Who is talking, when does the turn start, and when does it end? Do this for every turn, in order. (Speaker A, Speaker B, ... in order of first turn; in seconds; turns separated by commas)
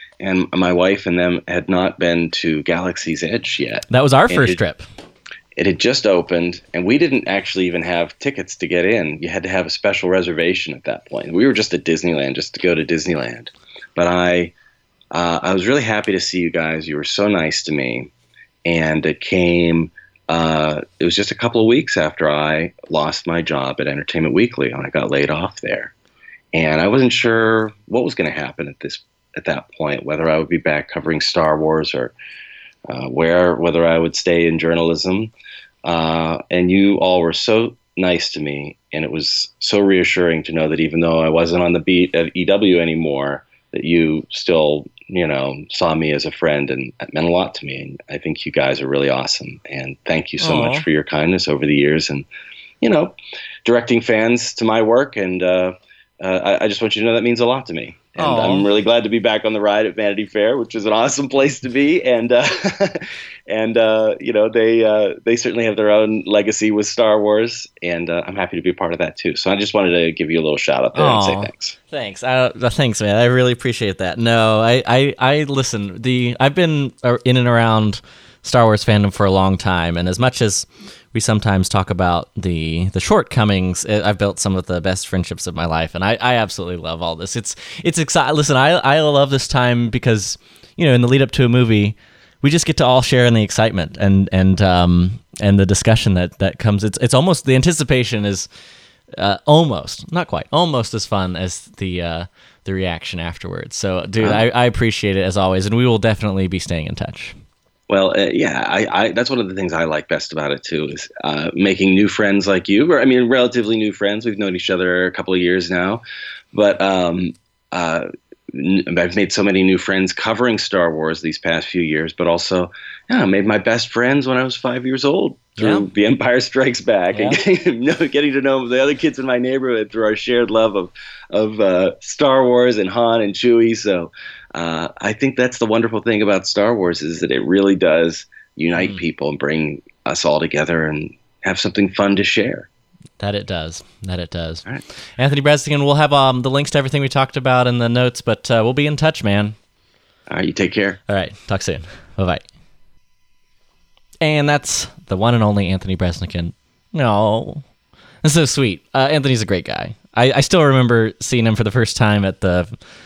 Speaker A: 0.2-4.6, Speaker B: 3.9-4.8, Speaker A: 5.6-14.5, Speaker A: 15.1-18.1, Speaker A: 18.6-25.9, Speaker A: 26.5-32.1, Speaker A: 32.9-35.3, Speaker A: 35.8-52.3, Speaker B: 50.4-50.9, Speaker A: 52.8-71.8, Speaker B: 58.2-58.7, Speaker B: 71.0-98.5, Speaker B: 99.2-107.3, Speaker A: 107.9-142.7, Speaker B: 125.6-125.9, Speaker B: 127.1-127.4, Speaker B: 143.2-144.7, Speaker B: 145.2-149.6, Speaker A: 150.3-151.0, Speaker B: 151.1-152.4, Speaker B: 154.2-157.6, Speaker B: 158.2-162.8